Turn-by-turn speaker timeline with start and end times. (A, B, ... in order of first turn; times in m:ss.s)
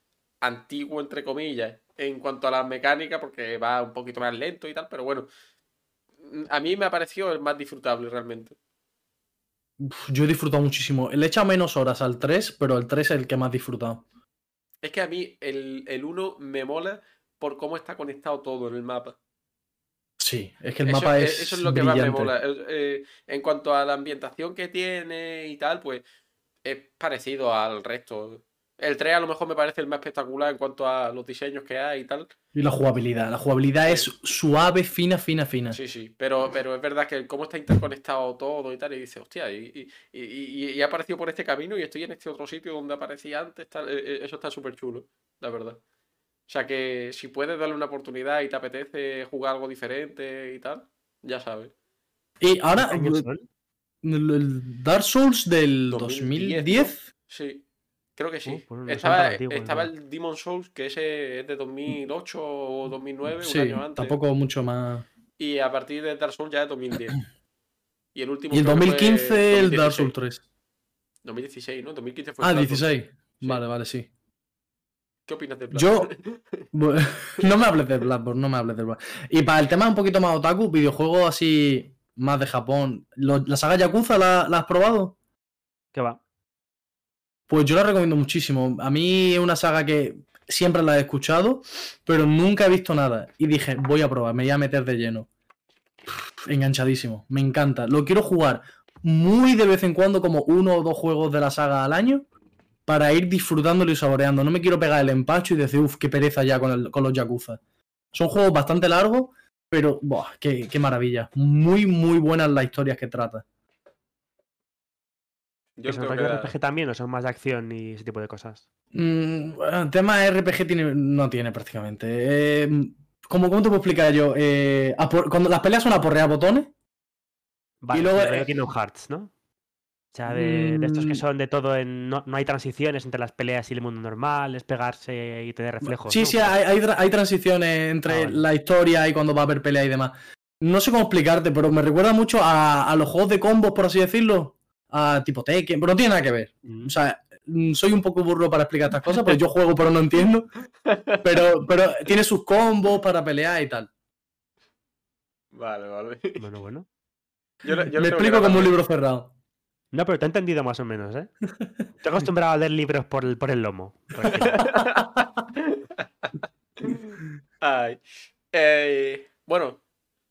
0:00.4-0:05.3 A
0:06.2-0:08.6 A
0:09.8-0:14.0 B
0:14.8-0:19.2 A
0:20.2-0:22.3 B
0:20.8-0:26.0 A
0:26.6-0:32.3 A
0:32.6-0:35.8 B
0:35.7-0:45.8 A
0:46.5-0:51.7 A
0:52.4-0:53.2 B
0:52.8-0:53.4 C
0:54.0-0:57.0 B
0:55.9-0:57.6 A
0:58.2-1:04.2 A
0:58.4-0:59.9 C
1:03.4-1:05.0 B
1:05.4-1:07.2 A
1:08.1-1:10.1 A
1:08.5-1:10.4 B
1:11.2-1:13.6 A
1:12.4-1:14.1 B
1:15.3-1:16.6 A
1:15.7-1:16.1 B
1:16.7-1:25.1 B
1:25.9-1:26.2 C
1:27.5-1:35.3 B
1:36.4-1:42.3 B
1:42.8-1:47.6 B
1:48.1-1:53.4 B
1:55.8-1:56.5 A
1:55.8-1:58.6 C
1:58.9-2:06.7 B
2:07.8-2:09.3 C
2:07.9-2:08.5 B
2:10.1-2:16.6 C
2:10.3-2:11.2 B
2:15.8-2:30.5 B
2:18.0-2:18.4 C
2:26.6-2:26.9 C
2:30.8-2:31.4 A
2:31.2-2:33.9 B
2:35.5-2:36.4 A
2:36.4-2:36.9 C
2:37.6-2:38.7 A
2:38.0-2:39.3 B
2:39.9-2:41.3 C
2:42.0-2:44.6 C
2:44.4-2:46.3 A
2:46.8-2:49.8 A